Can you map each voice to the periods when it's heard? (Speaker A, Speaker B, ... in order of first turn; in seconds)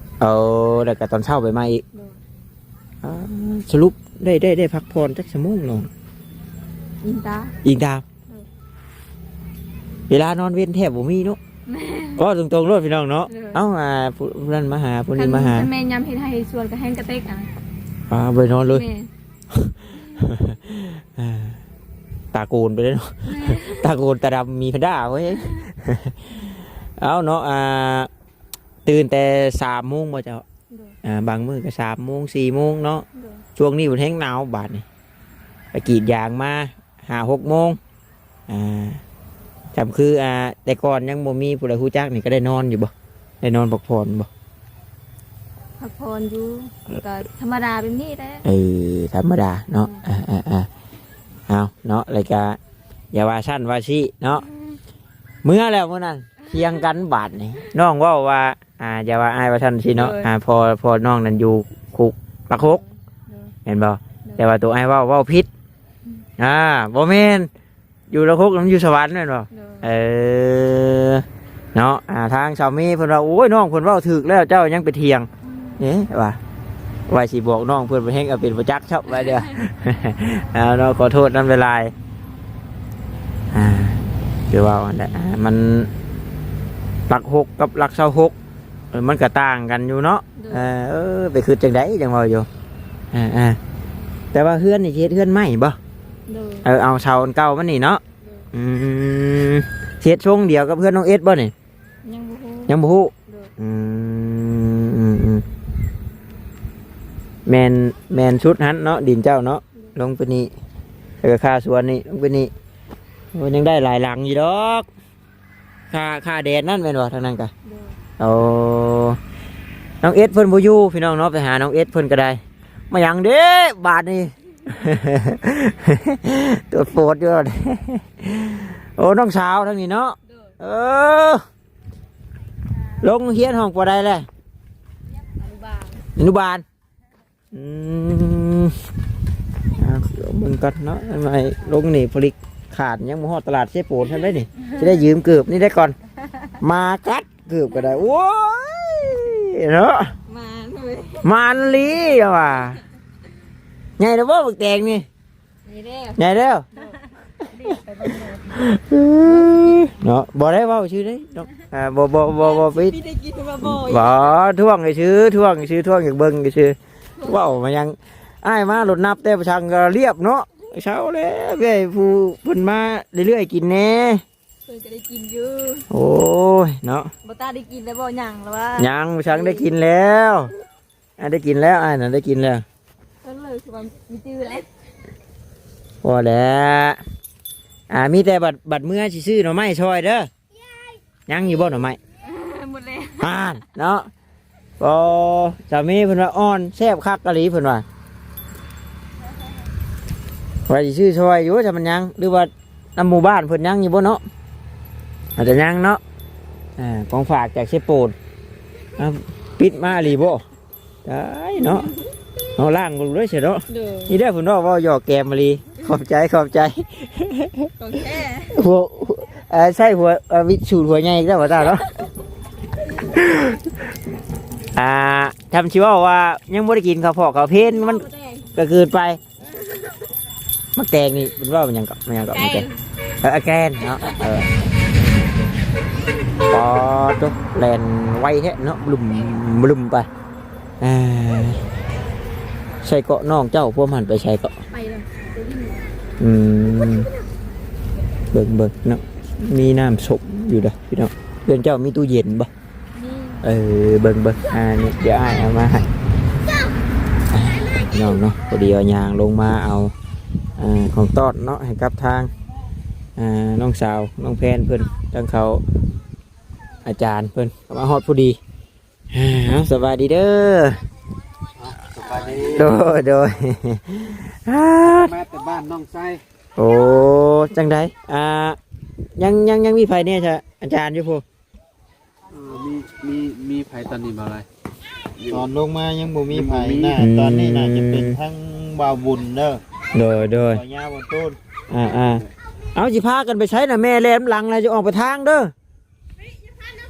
Speaker A: 0.2-1.8, 3.0-5.9, 7.6-8.0, 10.1-11.4, 12.2-15.7, 18.1-18.8, 19.5-21.6, 22.3-26.3, 27.0-28.1, 28.9-30.4, 31.0-33.0, 33.6-34.9, 35.7-37.8, 38.5-39.0, 39.7-44.3, 48.5-50.7, 51.5-52.6, 53.1-54.5, 55.4-62.8, 63.7-65.5, 66.4-67.5, 68.1-76.4, 77.1-81.9, 83.5-85.9, 87.1-88.3, 88.9-92.5, 93.1-93.6, 94.3-95.8, 96.6-98.0, 98.5-101.5, 102.7-105.4, 107.5-110.5, 111.2-112.5, 113.3-114.9, 115.9-117.5, 118.2-119.2, 120.0-122.4, 122.9-131.4, 133.0-134.3, 136.2-136.6, 137.5-138.8, 139.8-146.0, 146.6-150.1, 151.2-152.8, 154.0-155.1, 156.2-156.7, 158.5-163.0, 163.6-174.2, 175.9-177.1, 178.8-180.5, 181.2-182.6, 186.0-187.0, 187.9-190.3, 191.3-192.0, 193.2-194.1, 194.8-197.8, 200.7-204.2, 205.4-206.0, 206.8-208.2, 209.0-210.4, 211.1-211.9, 212.6-217.7, 218.6-221.9, 223.0-223.7, 224.8-229.2, 230.8-232.7, 233.2-234.5, 236.5-240.1, 240.8-241.6, 242.8-244.6, 246.2-247.1, 248.3-252.5, 253.4-255.9, 257.3-259.9, 260.6-262.3, 263.2-265.6, 266.9-268.4, 269.1-270.8, 272.5-275.1, 276.6-278.6, 279.2-281.2, 287.0-288.2, 289.9-290.6, 291.7-295.5
Speaker B: 1.9-2.2, 7.0-7.6, 11.7-12.2, 13.3-13.6, 15.2-17.5, 18.7-19.1, 23.3-23.9, 30.7-30.9, 33.1-33.4, 45.8-48.5, 59.9-60.3, 62.7-63.5, 69.5-69.9, 75.5-75.8, 79.1-79.5, 90.4-90.7, 96.3-96.7, 102.0-102.7, 117.7-118.0, 135.4-136.0, 150.3-151.3, 155.7-156.2, 156.8-158.6, 159.2-159.8, 162.4-164.3, 167.2-167.5, 174.7-175.9, 177.2-179.7, 183.2-184.7, 192.2-193.3, 211.6-211.9, 213.7-214.1, 217.8-218.6, 221.6-221.9, 227.6-228.5, 232.3-232.8, 244.7-245.8, 252.9-253.4
Speaker C: 271.6-272.8, 274.9-276.2, 282.3-284.5, 285.2-285.6, 286.3-289.6, 290.4-291.4
Speaker D: 285.4-289.6